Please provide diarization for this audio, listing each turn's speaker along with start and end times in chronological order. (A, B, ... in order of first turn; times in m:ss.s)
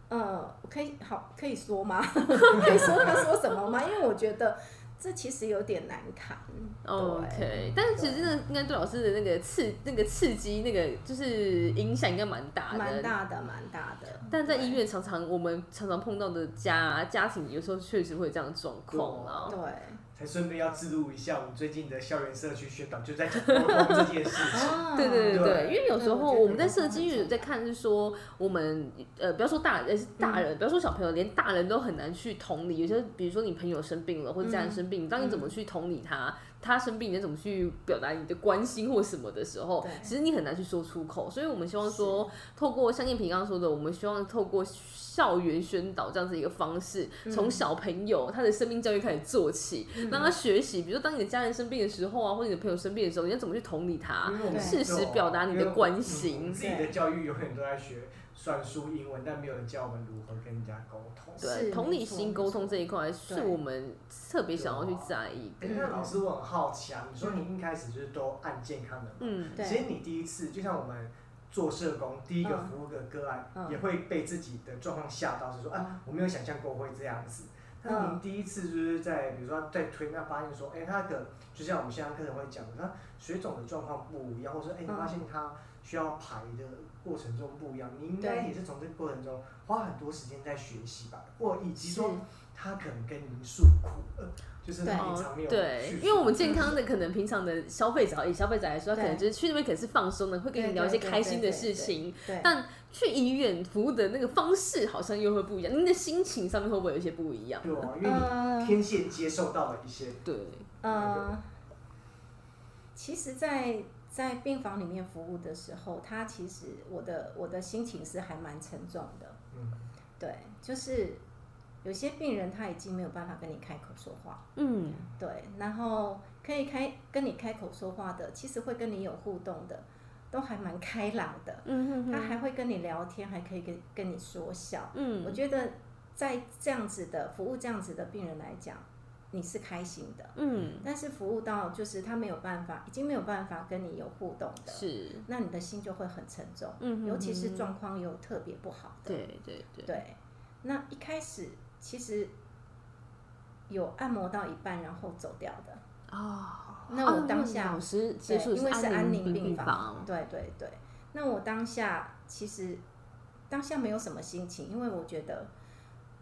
0:00.1-0:08.2 A
0:02.4-0:02.9 B
0:06.8-0:13.1 B
0:12.7-0:14.8 A
0:14.3-0:19.6 B
0:18.9-0:19.6 C
0:19.5-0:20.0 A
0:20.1-0:25.8 C
0:23.5-0:56.6 B
0:24.5-0:27.5 A
0:30.2-0:30.5 A
0:34.4-0:35.5 A
0:39.8-0:40.1 A
0:41.8-0:42.3 A
0:47.2-0:47.6 A
0:50.0-0:50.3 A
0:54.2-1:01.4 C
0:54.5-0:54.8 A
0:56.6-0:57.0 A
1:01.4-1:03.6 A
1:01.4-1:06.0 B
1:04.5-1:36.6 C
1:05.6-1:06.2 A
1:09.2-1:09.6 B
1:09.6-1:09.9 A
1:12.4-1:12.7 A
1:13.5-1:13.8 A
1:17.8-1:18.2 A
1:24.9-1:25.2 A
1:28.2-1:28.5 A
1:31.8-1:32.2 A
1:34.8-1:35.1 A
1:34.9-1:47.9 B
1:36.4-1:36.8 A
1:38.9-1:39.2 A
1:40.5-1:42.5 A
1:47.6-1:50.2 C
1:48.0-1:48.8 A
1:50.2-1:50.7 B
1:50.8-1:51.4 A
1:50.9-1:51.2 C
1:52.9-1:59.4 A
1:59.5-1:59.9 C
2:00.2-2:01.2 A
2:01.8-2:04.5 A
2:04.6-2:05.1 B
2:05.1-2:29.2 A
2:11.6-2:12.4 B
2:14.9-2:15.4 B
2:20.4-2:20.8 B
2:24.7-2:25.3 B
2:26.8-2:27.7 B
2:29.1-2:30.0 B
2:29.8-2:32.3 A
2:33.7-2:35.8 A
2:36.1-2:40.1 B
2:36.9-2:42.8 A
2:43.5-2:45.5 A